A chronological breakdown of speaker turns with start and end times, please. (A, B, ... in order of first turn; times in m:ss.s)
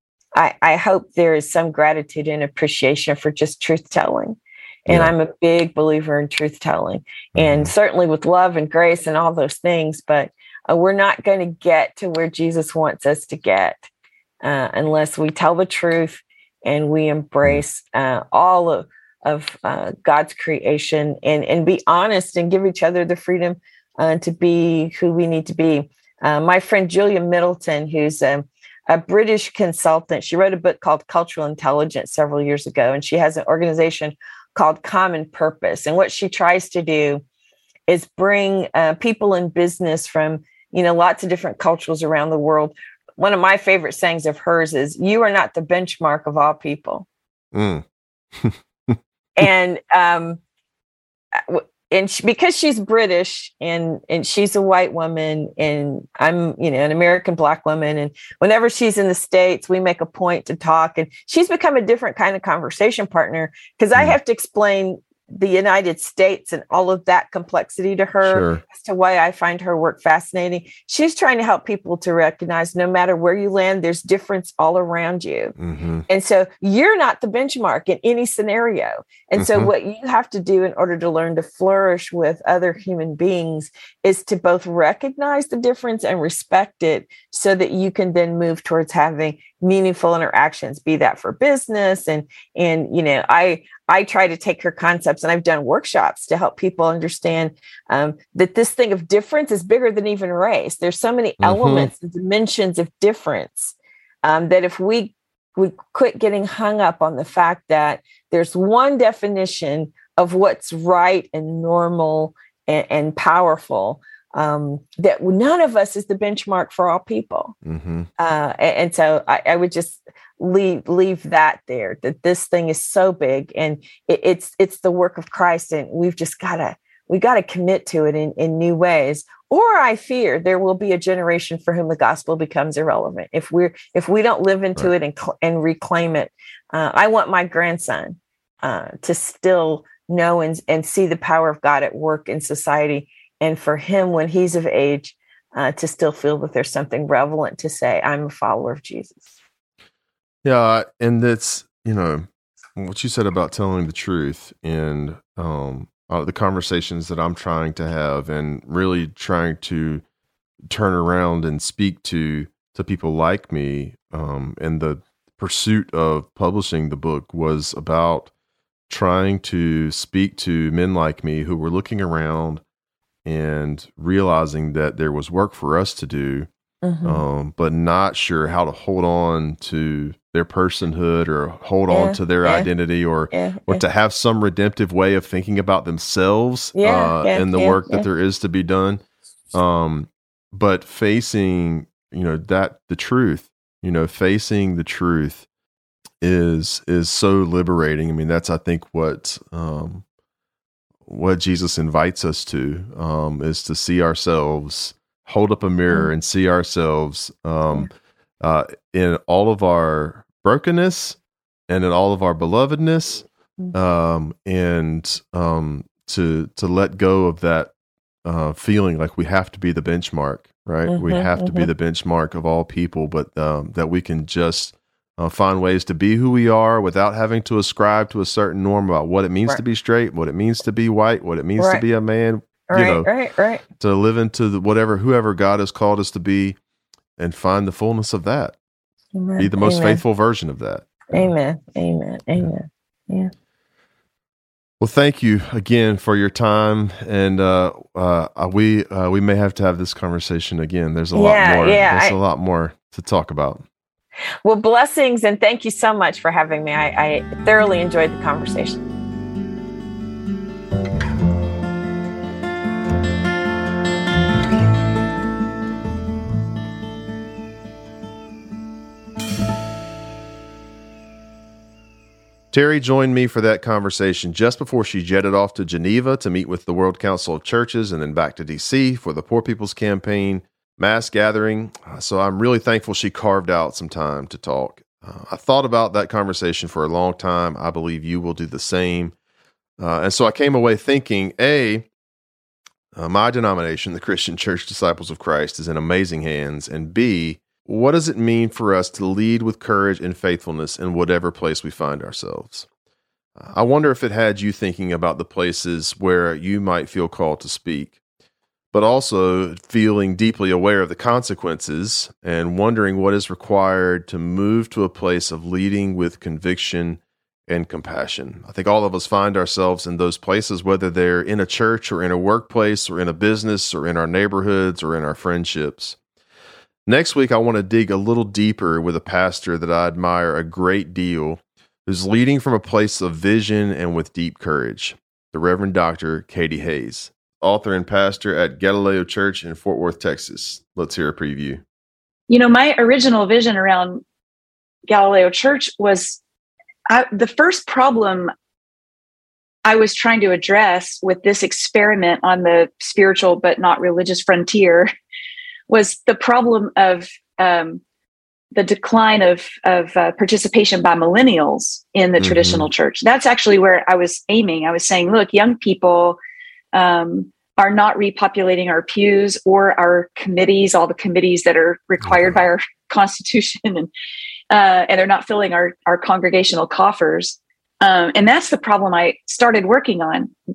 0:00.3-0:13.8 A
0:04.9-0:05.1 B
0:07.3-0:07.7 B
0:14.4-0:37.2 A
0:37.9-0:47.0 A
0:47.5-0:47.8 B
0:48.3-0:49.0 B
0:49.4-0:50.4 A
0:51.3-1:15.5 A
1:08.2-1:08.6 B
1:15.6-1:16.0 B
1:16.1-1:57.5 A
1:19.4-1:19.7 B
1:41.4-1:41.9 B
1:57.6-1:58.1 B
1:58.2-2:29.3 A
2:30.4-2:40.0 B
2:40.7-2:48.3 B
2:48.9-2:52.6 B
2:53.2-2:56.5 B
2:56.8-2:57.2 A
2:57.0-3:09.0 B
3:01.9-3:02.7 A
3:03.3-3:03.8 A
3:06.8-3:08.0 A
3:09.5-3:15.4 B
3:16.2-3:20.0 B
3:21.0-3:31.2 B
3:31.7-3:37.7 B
3:38.2-3:53.1 B
3:40.9-3:41.7 A
3:51.6-3:51.8 A
3:52.7-3:53.6 A
3:53.8-3:56.6 B
3:57.2-3:58.5 B
3:59.1-4:00.0 A
3:59.4-4:01.3 B
4:01.1-4:03.3 A
4:04.8-4:13.6 B
4:11.1-4:12.2 A
4:14.4-4:18.9 A
4:32.5-4:49.1 B
4:49.8-4:51.9 B
4:53.0-5:02.7 B
5:03.4-5:08.0 B
5:08.7-5:26.0 B
5:26.8-5:41.6 B
5:42.3-5:44.0 C
5:44.9-5:46.2 C
5:46.9-5:48.3 C
5:49.6-5:54.9 C
5:55.7-5:57.8 C
5:58.5-6:06.2 C
6:02.2-6:02.7 B
6:06.7-6:13.9 C
6:14.5-6:20.3 C